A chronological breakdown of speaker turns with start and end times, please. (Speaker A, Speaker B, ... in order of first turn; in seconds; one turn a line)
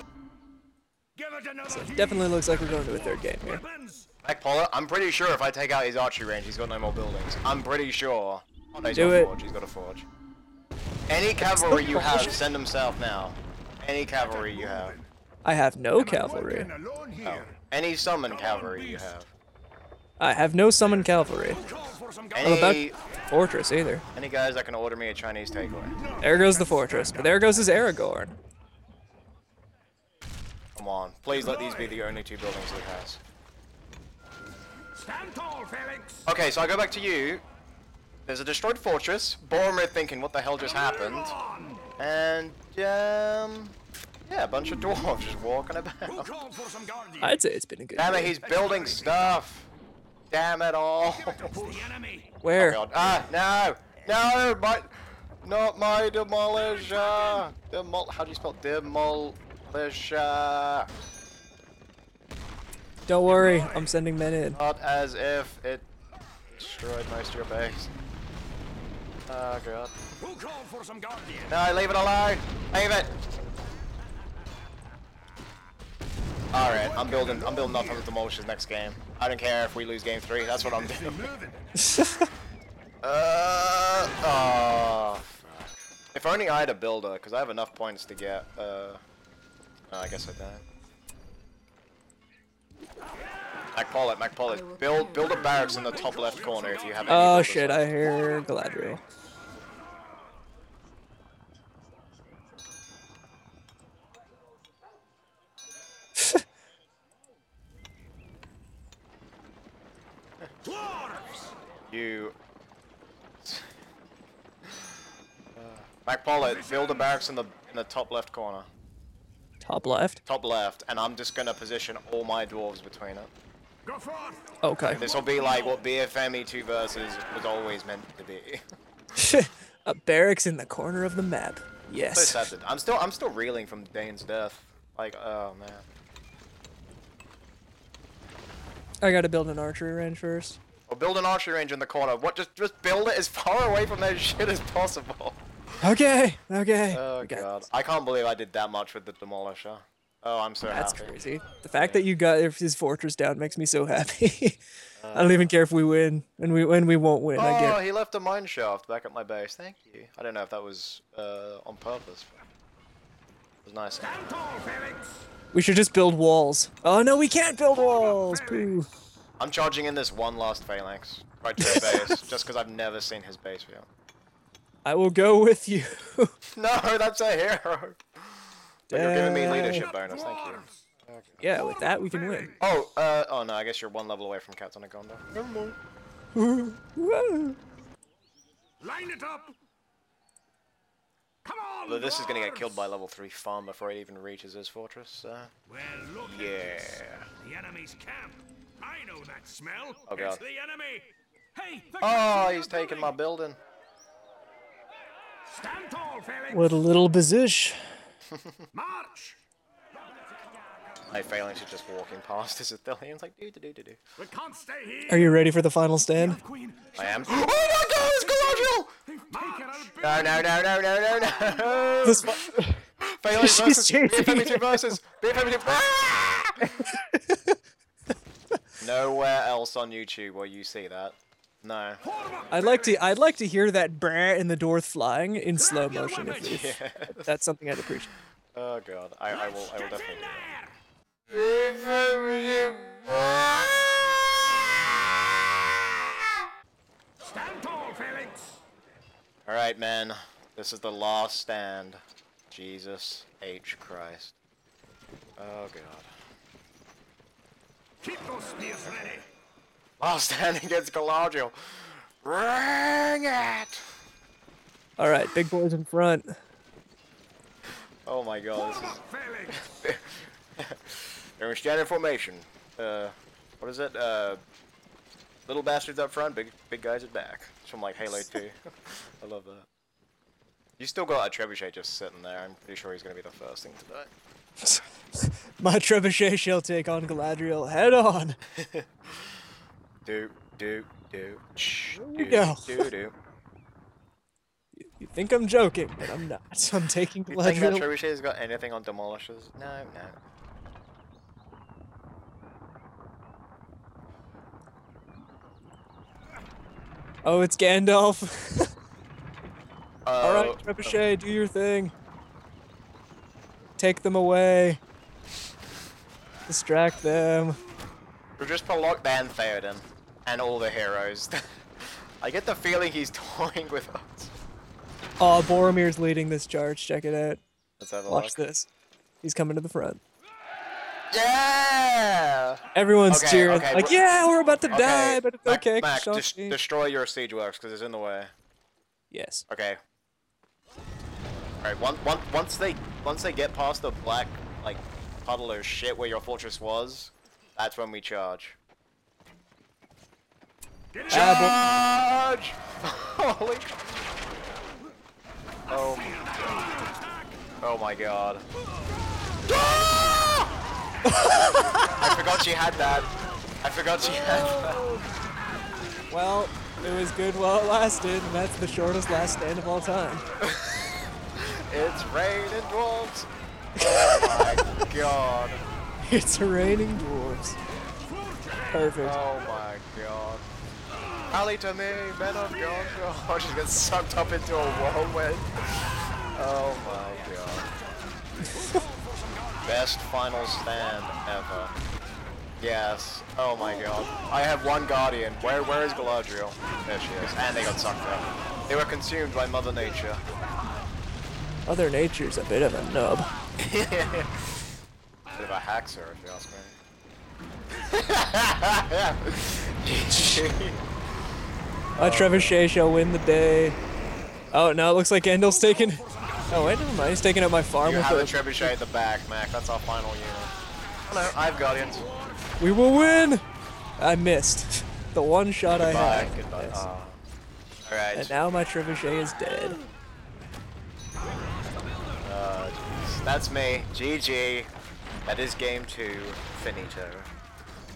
Speaker A: 1.1-2.4
Speaker B: 1.7-3.6
Speaker A: 3.4-4.1
Speaker C: 4.2-10.1
Speaker B: 8.9-9.3
Speaker C: 11.1-15.0
Speaker B: 11.4-12.4
Speaker B: 15.4-16.7
Speaker A: 16.4-17.4
Speaker C: 17.2-19.3
Speaker B: 20.2-21.6
Speaker A: 21.6-22.6
Speaker C: 22.3-23.0
Speaker B: 22.4-24.0
Speaker C: 24.1-26.0
Speaker B: 26.2-28.4
Speaker C: 30.7-33.2
Speaker A: 34.9-36.3
Speaker C: 36.2-37.4
Speaker C: 38.2-41.4
Speaker A: 41.3-41.8
Speaker C: 42.0-46.3
Speaker A: 46.1-47.2
Speaker B: 47.2-48.4
Speaker C: 48.0-49.7
Speaker A: 48.5-49.1
Speaker C: 50.3-51.7
Speaker A: 51.4-52.3
Speaker B: 52.4-52.8
Speaker C: 52.5-60.9
Speaker B: 63.1-64.6
Speaker C: 64.5-65.9
Speaker C: 66.5-67.9
Speaker C: 69.3-69.9
Speaker A: 70.2-71.5
Speaker C: 71.5-73.1
Speaker C: 76.5-81.3
Speaker A: 77.0-77.8
Speaker A: 81.0-81.6
Speaker B: 81.8-82.3
Speaker C: 83.0-89.0
Speaker C: 89.9-90.6
Speaker C: 93.7-98.0
Speaker A: 96.3-97.5
Speaker B: 97.1-99.0
Speaker A: 110.8-111.3
Speaker C: 111.9-112.3
Speaker C: 113.4-113.7
Speaker C: 114.6-114.9
Speaker C: 115.5-118.7
Speaker B: 119.6-120.2
Speaker C: 120.2-123.3
Speaker A: 123.9-124.4
Speaker B: 124.6-125.0
Speaker C: 124.8-128.6
Speaker B: 129.2-132.5
Speaker C: 132.1-135.8
Speaker B: 139.0-140.6
Speaker C: 140.9-145.4
Speaker B: 145.8-147.5
Speaker C: 146.9-151.2
Speaker B: 150.7-154.6
Speaker C: 151.8-152.1
Speaker C: 155.0-155.6
Speaker B: 155.1-157.8
Speaker C: 157.3-162.3
Speaker C: 163.6-164.2
Speaker A: 164.0-165.2
Speaker B: 165.5-168.9
Speaker A: 168.1-168.7
Speaker C: 169.4-173.9
Speaker B: 171.6-172.2
Speaker B: 174.8-176.3
Speaker C: 176.5-181.5
Speaker B: 178.9-179.9
Speaker A: 180.0-180.7
Speaker B: 181.4-182.5
Speaker C: 182.6-185.8
Speaker B: 186.3-187.6
Speaker A: 188.8-189.5
Speaker A: 191.4-192.5
Speaker C: 191.8-195.5
Speaker A: 195.7-202.8
Speaker C: 196.2-197.3
Speaker C: 200.1-200.4
Speaker C: 202.0-203.6
Speaker A: 205.5-206.5
Speaker B: 206.5-207.9
Speaker A: 208.7-209.3
Speaker C: 211.1-214.0
Speaker A: 214.2-215.3
Speaker B: 215.1-216.4
Speaker A: 216.4-217.6
Speaker C: 216.9-218.9
Speaker A: 218.3-220.3
Speaker C: 219.9-226.9
Speaker B: 222.0-222.8
Speaker B: 223.3-225.0
Speaker B: 226.6-227.6
Speaker C: 228.8-232.0
Speaker B: 232.5-238.1
Speaker C: 236.4-237.3
Speaker C: 238.5-240.6
Speaker C: 241.3-245.0
Speaker A: 247.2-248.6
Speaker C: 249.4-254.3
Speaker C: 255.4-256.1
Speaker A: 258.0-259.2
Speaker C: 258.9-259.2
Speaker C: 260.0-263.9
Speaker B: 265.0-266.4
Speaker C: 268.0-274.4
Speaker A: 269.0-269.6
Speaker C: 275.4-279.7
Speaker C: 280.8-284.1
Speaker B: 284.6-288.4
Speaker C: 288.5-289.3
Speaker C: 290.0-293.1
Speaker B: 291.9-292.9
Speaker B: 294.8-297.9
Speaker C: 297.3-300.2
Speaker B: 307.2-308.7
Speaker C: 310.0-311.0
Speaker B: 310.2-311.9
Speaker B: 313.8-314.8
Speaker B: 316.5-317.6
Speaker C: 318.4-324.3
Speaker B: 325.2-327.4
Speaker C: 327.8-328.4
Speaker B: 328.1-328.7
Speaker B: 329.2-330.0
Speaker C: 331.1-334.0
Speaker B: 332.7-336.6
Speaker C: 334.7-338.3
Speaker B: 339.1-339.4
Speaker C: 339.5-339.8
Speaker C: 341.6-348.6
Speaker A: 350.9-351.5
Speaker C: 351.1-354.0
Speaker B: 351.1-351.6
Speaker C: 355.7-356.5
Speaker A: 356.3-357.1
Speaker C: 357.6-358.4
Speaker C: 359.6-360.1
Speaker B: 361.1-361.9
Speaker C: 361.8-364.8
Speaker B: 364.1-365.1
Speaker B: 366.1-370.2
Speaker C: 370.4-375.6
Speaker B: 373.8-374.7
Speaker B: 376.0-377.6
Speaker A: 378.1-378.6
Speaker B: 378.7-379.2
Speaker C: 379.0-380.4
Speaker C: 381.3-387.7
Speaker C: 389.6-391.8
Speaker C: 392.6-400.2
Speaker B: 401.6-403.3
Speaker C: 403.6-404.6
Speaker C: 405.3-406.8
Speaker C: 407.8-410.8
Speaker C: 411.9-412.6
Speaker B: 412.0-413.8
Speaker B: 414.5-418.7
Speaker A: 415.9-416.6
Speaker C: 417.8-420.5
Speaker C: 421.1-422.1
Speaker B: 422.6-423.4
Speaker B: 424.0-426.8
Speaker C: 425.8-427.2
Speaker C: 427.8-428.4
Speaker B: 428.1-429.8
Speaker C: 432.2-434.7
Speaker C: 435.2-437.3